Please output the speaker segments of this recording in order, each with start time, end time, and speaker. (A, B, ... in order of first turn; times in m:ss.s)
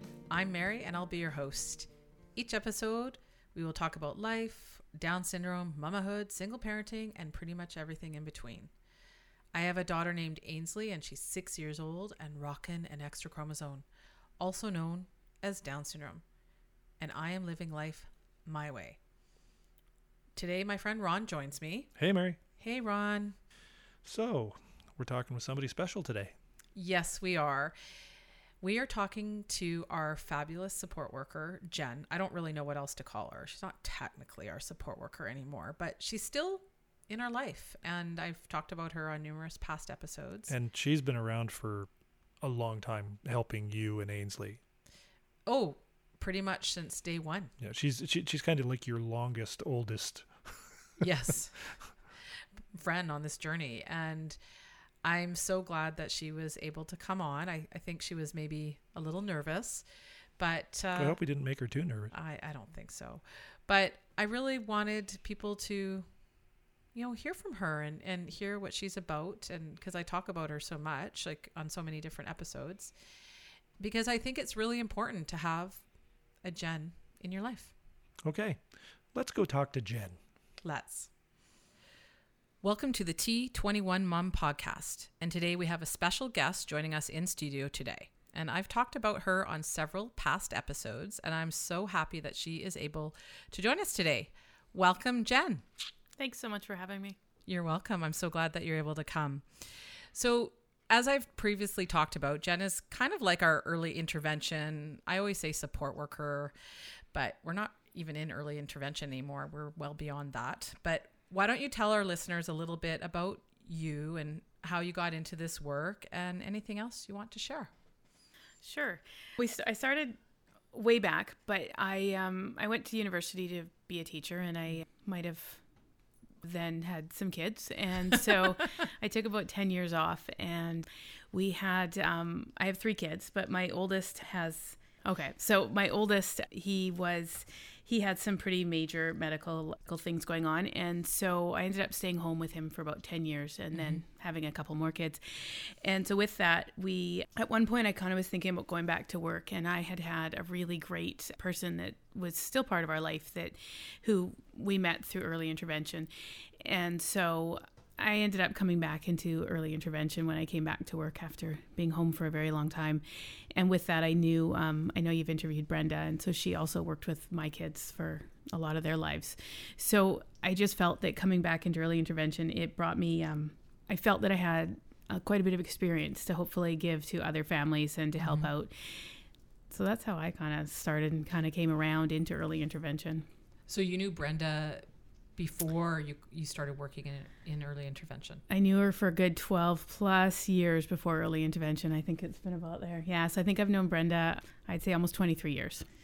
0:00.3-0:08.7 A
0:09.5-0:13.8 A
0:14.4-0:16.2 A
0:17.0-0:19.0 A
0:20.4-0:22.0 A
0:22.0-0:22.4 B
0:22.6-0:23.4 A
0:24.0-0:26.3 B
0:26.7-0:27.7 A
0:28.6-0:40.5 A
0:40.5-0:41.9 B
0:42.4-0:44.6 B
0:45.4-0:47.5 A
0:47.6-0:50.7 B
0:51.0-0:51.7 A
0:52.7-0:54.4 A
0:55.0-0:59.8 A
1:00.4-1:01.2 A
1:01.0-1:02.1 B
1:02.1-1:06.0 A
1:06.9-1:12.9 A
1:13.8-1:15.8 A
1:16.4-1:17.7 A
1:18.2-1:20.2 B
1:20.6-1:21.1 A
1:22.6-1:35.6 A
1:36.2-1:37.2 C
1:37.5-1:46.5 A
1:47.1-1:57.7 A
1:58.6-2:00.2 C
2:00.7-2:05.6 C
2:06.4-2:59.2 C
2:23.7-2:24.0 A
2:58.2-2:58.5 A
2:59.7-3:03.3 C
3:03.7-3:04.8 A
3:05.4-3:08.4 A
3:08.5-3:15.8 C